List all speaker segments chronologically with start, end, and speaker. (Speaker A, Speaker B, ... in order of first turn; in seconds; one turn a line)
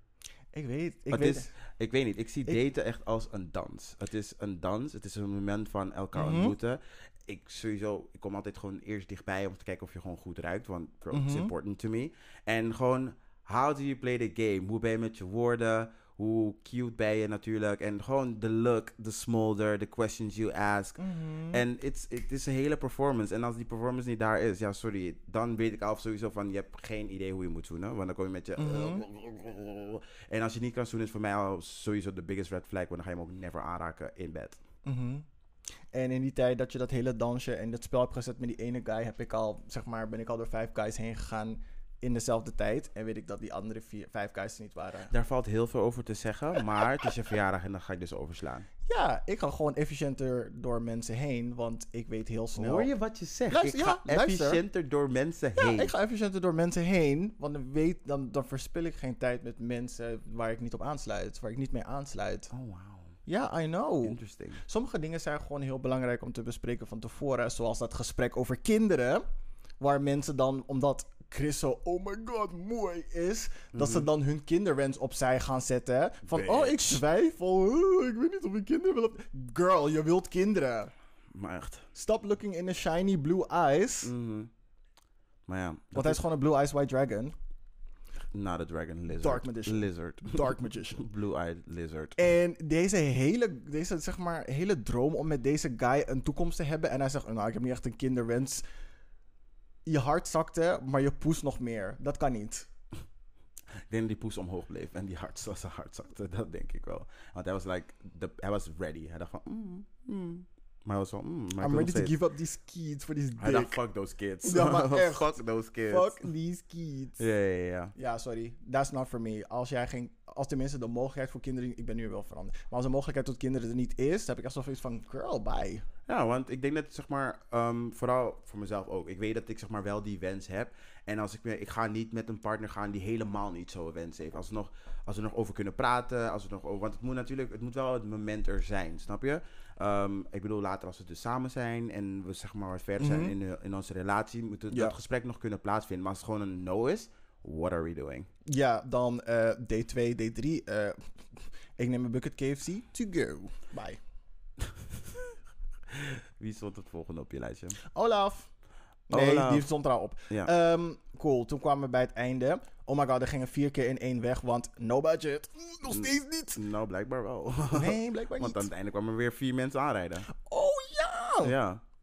Speaker A: 0.5-1.5
Speaker B: 1.1-34.6
Speaker A: 6.1-6.5
Speaker A: 11.1-11.5
Speaker A: 21.0-21.6
Speaker A: 28.6-29.0
Speaker A: 34.8-35.2
Speaker A: 35.9-45.1
Speaker B: 45.1-48.7
Speaker A: 48.9-52.9
Speaker B: 52.5-55.9
Speaker A: 53.5-54.6
Speaker A: 55.6-62.5
Speaker B: 62.5-63.1
Speaker A: 63.2-69.2
Speaker B: 64.0-64.6
Speaker A: 69.8-80.9
Speaker B: 73.7-74.1
Speaker B: 76.2-77.0
Speaker B: 81.3-81.9
Speaker A: 81.9-84.1
Speaker B: 84.0-84.5
Speaker B: 85.5-86.2
Speaker A: 85.9-87.3
Speaker B: 88.3-92.2
Speaker A: 89.2-91.0
Speaker A: 92.2-98.6
Speaker A: 99.8-102.7
Speaker B: 103.9-112.2
Speaker A: 111.6-113.8
Speaker B: 113.4-116.3
Speaker A: 114.4-117.2
Speaker B: 117.2-117.9
Speaker A: 117.9-125.8
Speaker B: 126.1-148.3
Speaker A: 143.0-143.3
Speaker A: 144.7-144.9
Speaker A: 148.4-154.0
Speaker B: 155.9-157.8
Speaker A: 157.8-158.5
Speaker A: 159.1-166.6
Speaker B: 159.1-159.7
Speaker B: 165.9-170.3
Speaker A: 167.7-168.7
Speaker A: 170.3-171.5
Speaker B: 171.4-171.8